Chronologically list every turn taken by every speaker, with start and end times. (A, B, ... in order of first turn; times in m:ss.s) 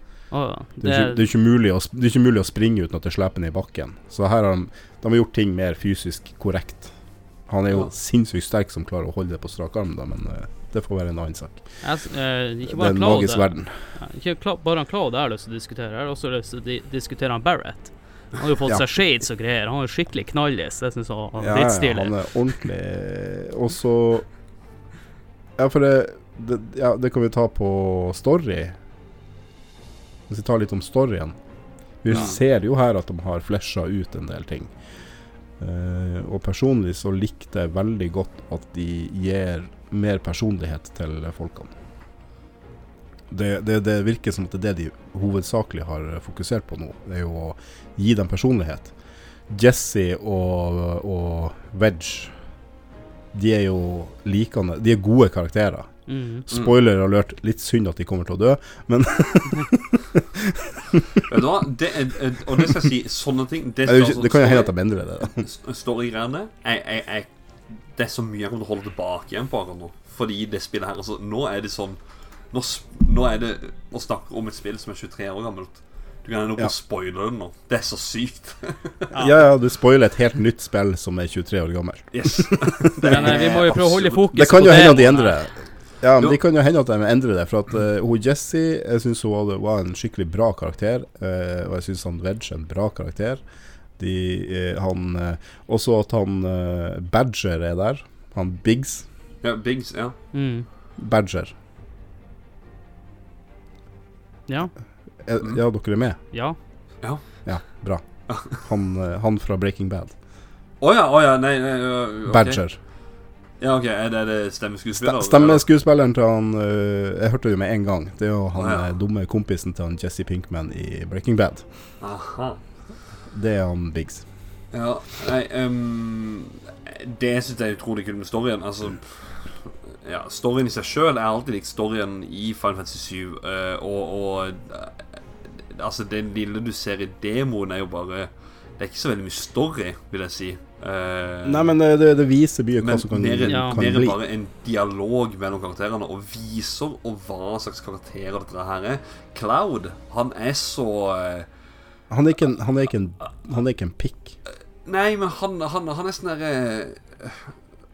0:00.3-0:01.3 A
0:00.8-0:11.8 B
0:11.8-0:22.6 A
0:12.6-0:13.8 B
0:21.4-0:24.3 B
0:25.6-0:28.8 B
0:30.3-0:31.4 B
0:32.0-0:34.7 B
0:32.1-0:32.4 C
0:35.6-0:41.7 B
0:43.3-0:48.9 B
0:49.5-0:52.4 B
0:53.3-1:01.2 B
0:56.1-0:56.4 A
0:56.5-0:56.8 C
1:01.3-1:04.7 C
1:03.9-1:05.5 B
1:05.3-1:07.3 C
1:07.8-1:12.0 C
1:12.5-1:19.1 C
1:19.1-1:19.4 A
1:19.1-1:33.4 B
1:22.1-1:24.2 C
1:23.1-1:25.4 A
1:34.0-1:39.1 B
1:39.4-1:40.2 C
1:40.3-1:40.7 A
1:41.0-1:41.5 B
1:44.5-1:44.7 A
1:45.2-1:46.2 B
1:46.3-1:46.6 A
1:47.0-1:47.5 C
1:47.4-1:50.1 B
1:48.3-1:48.6 C
1:50.8-1:52.6 C
1:52.3-1:52.8 B
1:53.6-1:55.6 C
1:55.0-2:01.6 B
1:58.6-1:58.9 C
2:02.0-2:02.6 C
2:03.3-2:04.3 B
2:04.7-2:21.7 C
2:21.4-2:24.2 B
2:22.8-2:31.5 C
2:23.5-2:23.8 A
2:32.1-2:34.4 B
2:34.8-2:37.6 C